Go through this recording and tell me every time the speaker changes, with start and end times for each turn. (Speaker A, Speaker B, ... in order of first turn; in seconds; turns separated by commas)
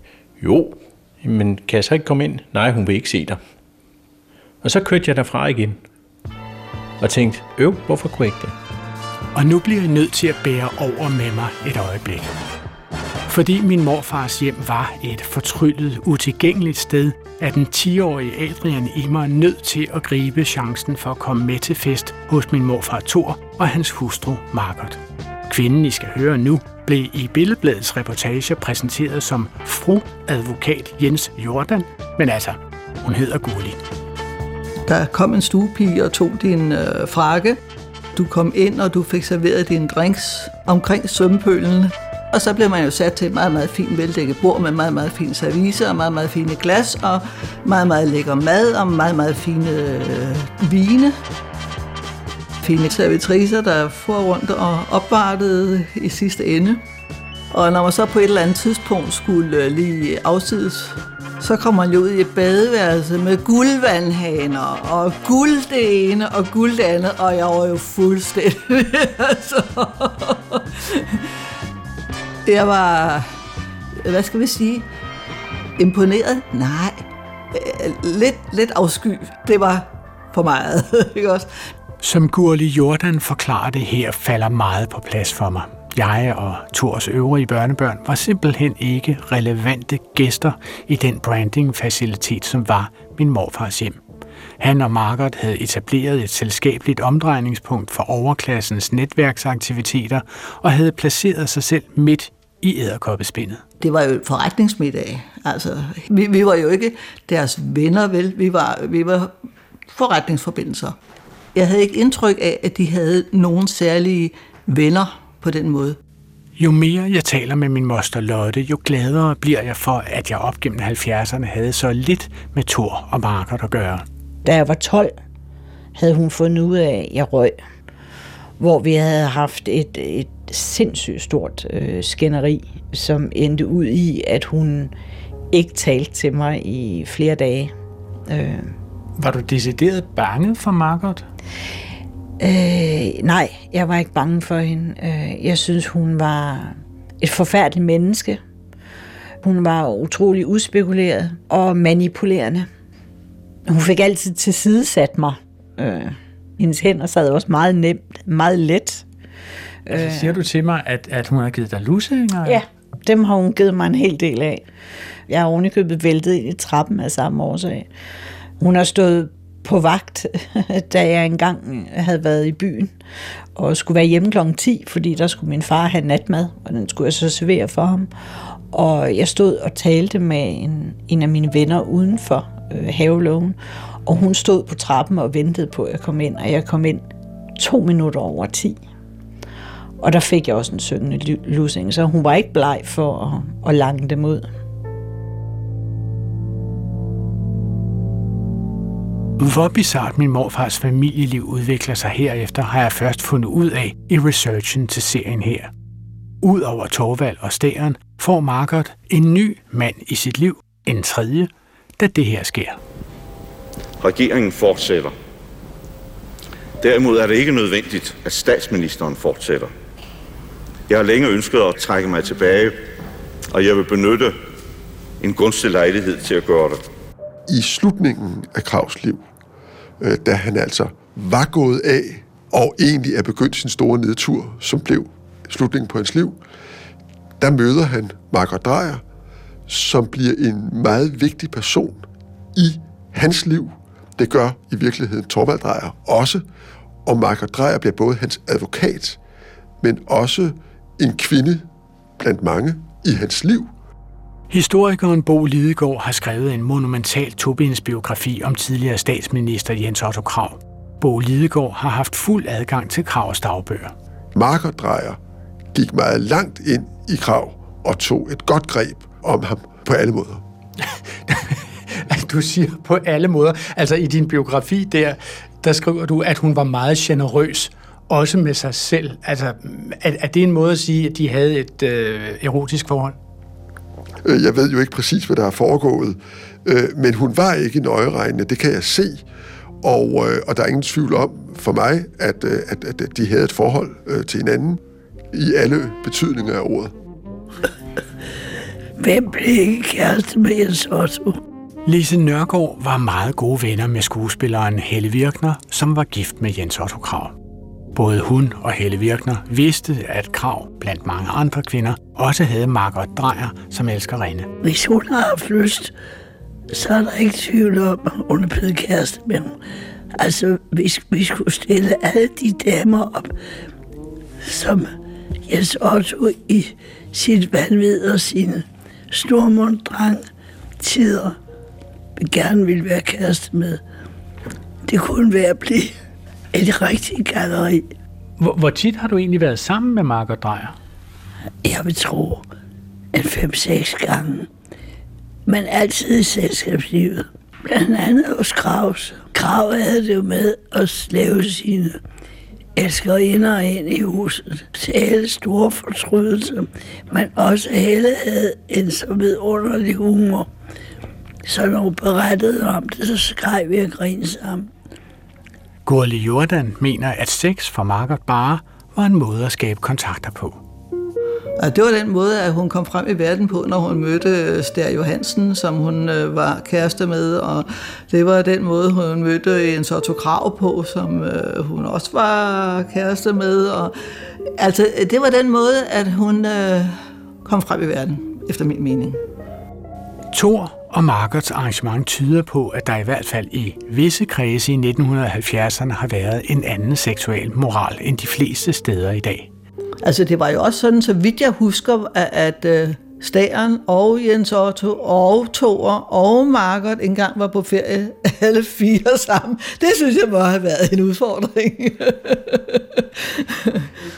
Speaker A: 0.4-3.4, Speaker A: 4.6-5.8, Speaker A: 7.0-8.6, Speaker B: 9.3-12.3, Speaker B: 13.3-33.8, Speaker C: 34.9-37.6, Speaker C: 38.1-51.2, Speaker C: 52.6-56.8, Speaker C: 57.5-71.2, Speaker C: 72.5-73.3, Speaker C: 74.0-74.9, Speaker C: 75.8-77.0, Speaker C: 77.5-81.5, Speaker B: 82.0-94.0, Speaker B: 94.6-103.6, Speaker C: 103.8-109.3, Speaker C: 109.9-111.0, Speaker C: 111.5-116.0, Speaker B: 116.6-124.0, Speaker D: 124.4-125.1, Speaker D: 126.0-127.5, Speaker D: 128.6-134.9, Speaker D: 135.5-137.7, Speaker D: 138.3-138.7, Speaker B: 139.2-141.2, Speaker D: 142.4-148.4, Speaker D: 149.4-152.7, Speaker D: 153.7-159.1, Speaker D: 159.9-160.4, Speaker B: 159.9-162.6, Speaker D: 162.4-164.6, Speaker D: 165.3-167.9, Speaker D: 168.6-172.9, Speaker D: 173.6-178.1, Speaker D: 178.7-187.1, Speaker D: 187.6-188.8, Speaker D: 190.0-194.5, Speaker B: 199.4-205.7, Speaker B: 206.4-212.8, Speaker E: 214.0-215.1, Speaker E: 216.8-219.7, Speaker E: 220.9-222.8, Speaker E: 223.5-224.3, Speaker E: 225.2-226.8, Speaker F: 227.5-229.2, Speaker F: 230.0-236.4, Speaker F: 237.4-239.0, Speaker F: 239.7-242.0, Speaker F: 242.6-246.4, Speaker F: 247.1-249.2, Speaker F: 249.8-251.7, Speaker F: 252.2-253.7, Speaker B: 254.5-263.9, Speaker F: 264.4-265.2, Speaker F: 265.7-270.4, Speaker B: 271.3-283.2, Speaker F: 284.2-289.2, Speaker F: 289.8-294.8, Speaker F: 295.3-296.9, Speaker G: 299.0-301.4, Speaker B: 301.9-307.4, Speaker B: 307.9-314.5, Speaker G: 314.6-315.9, Speaker G: 316.7-319.6, Speaker G: 320.2-323.3, Speaker G: 324.4-324.9, Speaker G: 325.5-330.3, Speaker G: 330.8-331.4, Speaker G: 332.2-333.8, Speaker G: 334.9-336.0, Speaker G: 336.5-337.9, Speaker B: 338.4-340.8, Speaker G: 341.6-342.5, Speaker G: 343.1-344.5, Speaker G: 345.5-352.0, Speaker G: 352.8-360.5, Speaker G: 361.4-364.7, Speaker B: 365.9-370.6, Speaker C: 371.6-383.9, Speaker C: 384.6-389.2, Speaker B: 390.3-399.5, Speaker C: 400.0-413.9